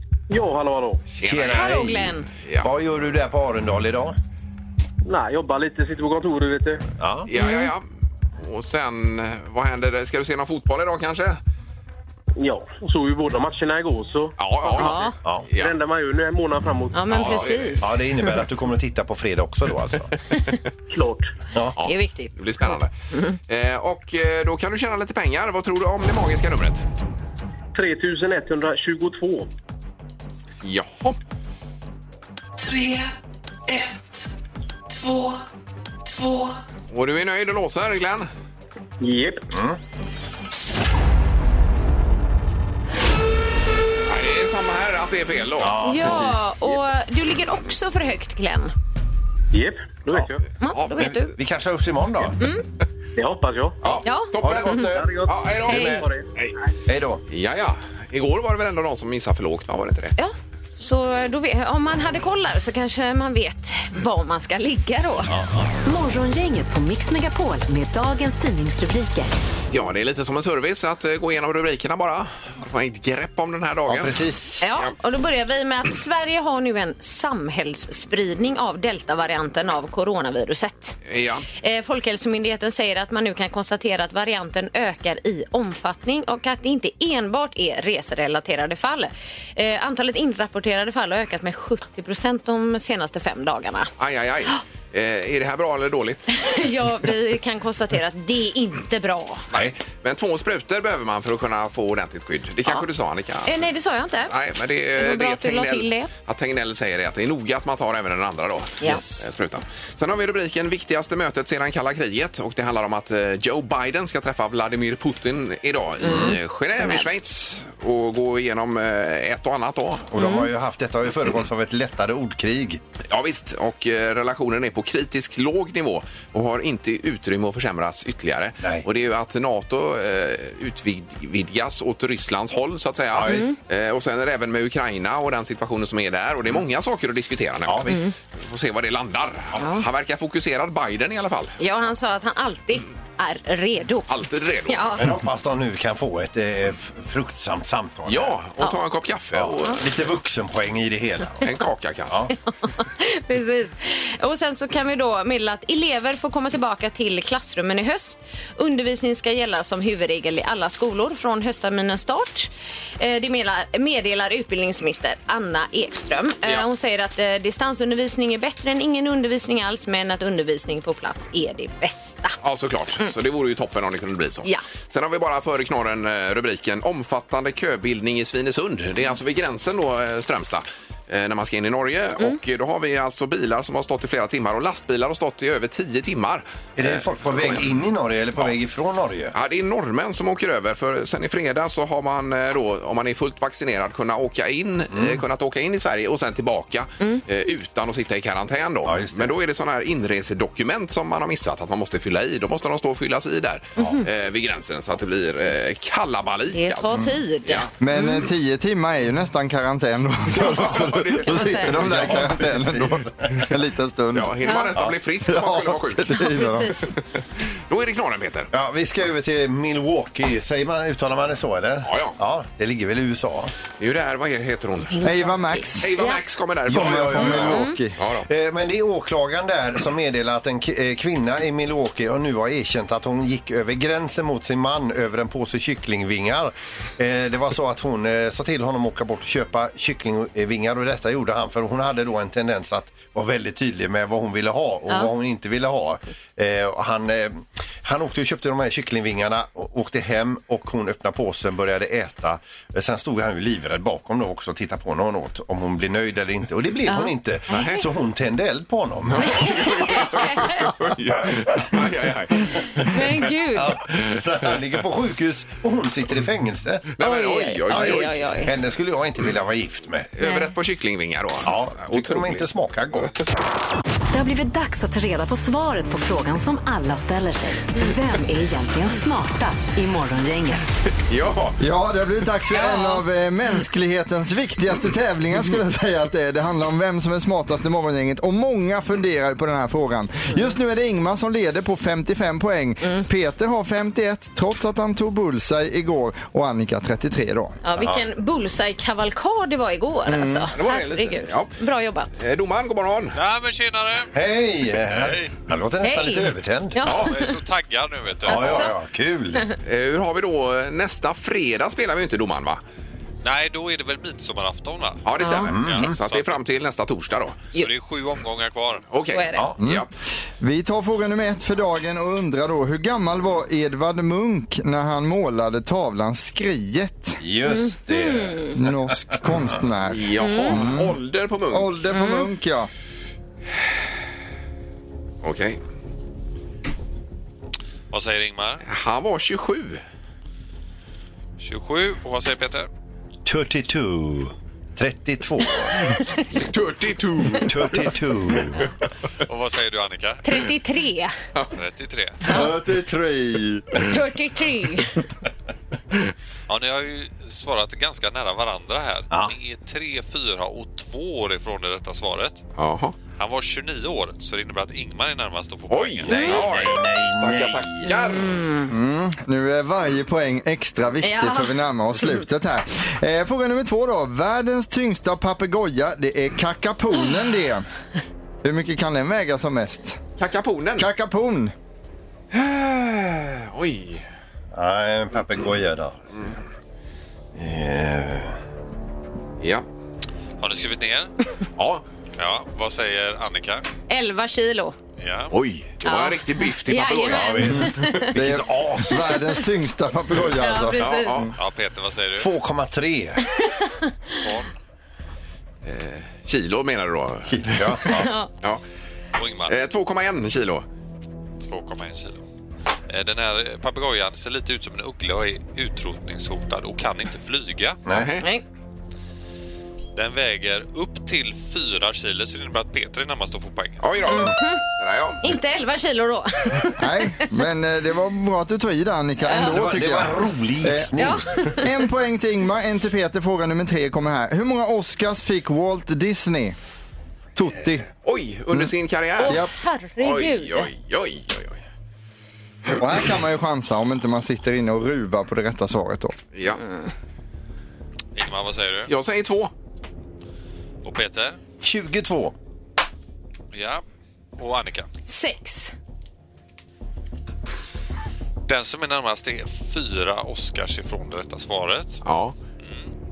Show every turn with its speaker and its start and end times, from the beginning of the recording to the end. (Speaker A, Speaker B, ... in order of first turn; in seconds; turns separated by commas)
Speaker A: 0.3-1.0, Speaker B: 1.2-2.7, Speaker C: 1.2-4.1, Speaker D: 1.5-2.3, Speaker A: 5.0-6.8, Speaker C: 7.0-7.3, Speaker B: 7.3-7.8, Speaker D: 7.3-7.7, Speaker B: 8.4-11.4, Speaker A: 12.4-14.3, Speaker B: 14.4-15.8, Speaker D: 14.7-15.1, Speaker A: 15.6-17.4, Speaker D: 16.9-18.3, Speaker B: 17.1-17.9, Speaker C: 17.8-20.1, Speaker A: 20.9-21.3, Speaker B: 21.8-22.9, Speaker D: 21.8-23.4, Speaker B: 23.5-26.9, Speaker A: 27.7-29.5, Speaker B: 30.6-31.2, Speaker E: 32.6-33.1, Speaker E: 33.7-34.3, Speaker E: 34.9-35.4, Speaker E: 36.0-36.5, Speaker B: 36.9-38.3, Speaker A: 39.0-39.5, Speaker C: 39.5-39.8, Speaker B: 44.1-46.2, Speaker C: 45.6-46.6, Speaker D: 45.8-48.7, Speaker A: 49.5-50.4, Speaker D: 50.6-51.3, Speaker B: 50.7-51.1, Speaker C: 51.0-52.4, Speaker A: 53.1-53.8, Speaker B: 53.8-56.5, Speaker D: 54.0-54.9, Speaker C: 54.4-56.0, Speaker A: 55.0-56.3, Speaker D: 55.7-56.0, Speaker C: 56.9-57.2, Speaker B: 57.3-60.1, Speaker D: 60.2-65.3, Speaker C: 65.3-65.7, Speaker F: 65.9-69.3, Speaker B: 69.7-74.2, Speaker C: 73.9-74.6, Speaker D: 74.6-81.0, Speaker B: 81.0-81.5, Speaker D: 81.5-93.9, Speaker B: 94.0-96.3, Speaker D: 96.3-99.4, Speaker B: 99.5-103.7, Speaker D: 103.5-104.3, Speaker B: 104.3-120.1, Speaker D: 105.0-106.1, Speaker D: 116.0-117.0, Speaker C: 116.1-116.3, Speaker C: 120.1-122.8, Speaker D: 120.2-120.5, Speaker B: 123.1-141.6, Speaker C: 133.1-133.4, Speaker D: 133.3-133.6, Speaker C: 137.7-137.9, Speaker D: 137.9-138.1, Speaker D: 139.6-139.8, Speaker D: 141.6-144.1, Speaker B: 144.1-145.0, Speaker D: 144.7-145.1, Speaker C: 145.0-148.4, Speaker B: 148.1-149.8, Speaker C: 149.4-151.5, Speaker B: 151.4-152.2, Speaker C: 152.1-152.3, Speaker D: 152.5-172.4, Speaker B: 172.4-187.7, Speaker C: 186.8-189.3, Speaker B: 189.3-207.7, Speaker C: 194.9-195.2, Speaker C: 198.8-199.3, Speaker D: 203.8-204.0, Speaker D: 206.5-208.3, Speaker G: 207.8-214.4, Speaker B: 210.3-211.8, Speaker D: 211.2-211.7, Speaker C: 211.8-213.4, Speaker B: 214.1-216.2, Speaker D: 214.4-214.7, Speaker G: 215.2-216.8, Speaker D: 216.1-216.9, Speaker B: 217.5-218.5, Speaker C: 218.5-223.5, Speaker B: 221.8-222.2, Speaker B: 223.8-225.0, Speaker D: 224.9-226.2, Speaker G: 225.0-225.9, Speaker B: 225.8-228.2, Speaker C: 226.7-227.6, Speaker G: 226.7-228.0, Speaker D: 227.4-227.8, Speaker C: 228.3-260.7, Speaker D: 256.9-257.8, Speaker B: 257.5-257.8, Speaker B: 259.1-263.1, Speaker D: 259.2-260.7, Speaker D: 262.8-263.8, Speaker C: 263.5-266.9, Speaker B: 266.9-268.2, Speaker D: 267.0-268.5, Speaker C: 267.7-270.1, Speaker B: 270.1-272.4, Speaker D: 270.2-270.5, Speaker C: 271.4-273.1, Speaker F: 274.1-280.6, Speaker B: 281.1-281.6, Speaker G: 281.6-297.6, Speaker D: 282.5-283.0, Speaker D: 297.6-302.1, Speaker C: 297.8-298.0, Speaker G: 300.1-300.5, Speaker B: 300.5-301.5, Speaker B: 302.1-303.1, Speaker H: 303.1-304.1, Speaker C: 304.1-306.8, Speaker H: 304.9-305.3, Speaker D: 305.8-307.3, Speaker H: 306.9-308.7, Speaker D: 308.2-308.7, Speaker C: 308.2-309.4, Speaker B: 309.6-312.6, Speaker H: 313.2-316.3, Speaker B: 315.0-317.4, Speaker D: 315.2-315.5, Speaker C: 315.5-315.9, Speaker H: 317.5-318.9, Speaker B: 318.9-319.9, Speaker D: 319.1-319.4, Speaker G: 319.6-319.9, Speaker G: 320.4-327.2, Speaker C: 327.2-328.8, Speaker D: 327.5-328.6, Speaker G: 328.5-331.0, Speaker B: 329.9-331.7, Speaker D: 330.2-330.6, Speaker G: 331.5-332.7, Speaker D: 331.9-332.3, Speaker B: 335.2-335.6, Speaker H: 337.9-338.6, Speaker B: 338.6-339.8, Speaker H: 341.4-342.7, Speaker C: 343.2-346.0, Speaker B: 346.3-347.9, Speaker C: 347.4-348.6, Speaker H: 349.2-350.2, Speaker D: 350.2-351.1, Speaker H: 351.5-352.4, Speaker G: 352.3-353.7, Speaker D: 353.8-355.0, Speaker H: 356.5-362.4, Speaker B: 362.6-362.9, Speaker H: 363.1-366.4, Speaker B: 365.7-368.4, Speaker C: 366.1-367.9, Speaker D: 367.8-368.7, Speaker G: 368.7-377.7, Speaker D: 371.0-372.2, Speaker G: 378.4-380.0, Speaker B: 380.2-380.9, Speaker G: 380.8-381.5, Speaker B: 382.3-384.0, Speaker C: 384.5-386.4, Speaker C: 387.3-388.4, Speaker H: 390.4-391.1, Speaker B: 391.6-391.8, Speaker H: 392.2-393.6, Speaker D: 393.9-394.8, Speaker H: 395.0-395.4, Speaker B: 395.3-397.9, Speaker D: 395.8-398.1, Speaker C: 397.1-399.0, Speaker G: 398.1-401.2, Speaker D: 400.4-401.2, Speaker B: 400.8-401.3, Speaker H: 401.4-402.3, Speaker C: 402.1-403.2, Speaker D: 403.4-403.7, Speaker H: 404.2-404.5, Speaker B: 405.6-407.8, Speaker C: 407.3-408.1, Speaker D: 407.9-408.3, Speaker H: 409.1-409.6, Speaker B: 409.5-410.6, Speaker H: 411.4-412.2, Speaker H: 412.9-417.8, Speaker C: 417.9-418.1, Speaker B: 417.9-418.2, Speaker H: 419.9-423.9, Speaker B: 423.8-425.2, Speaker D: 424.1-424.6, Speaker D: 425.2-427.2, Speaker G: 426.8-436.6, Speaker D: 429.2-429.6, Speaker C: 429.4-431.2, Speaker D: 431.0-431.7, Speaker G: 437.3-437.9, Speaker B: 438.0-439.4, Speaker D: 439.2-440.7, Speaker G: 439.2-439.5, Speaker B: 440.0-441.6, Speaker G: 442.8-446.1, Speaker B: 446.3-446.6, Speaker H: 448.1-448.9, Speaker B: 448.9-449.5, Speaker H: 450.8-451.4, Speaker C: 451.6-452.3, Speaker H: 453.5-453.8, Speaker H: 454.4-454.9, Speaker D: 455.1-455.7, Speaker H: 458.5-462.0, Speaker B: 462.0-462.3, Speaker H: 462.6-462.9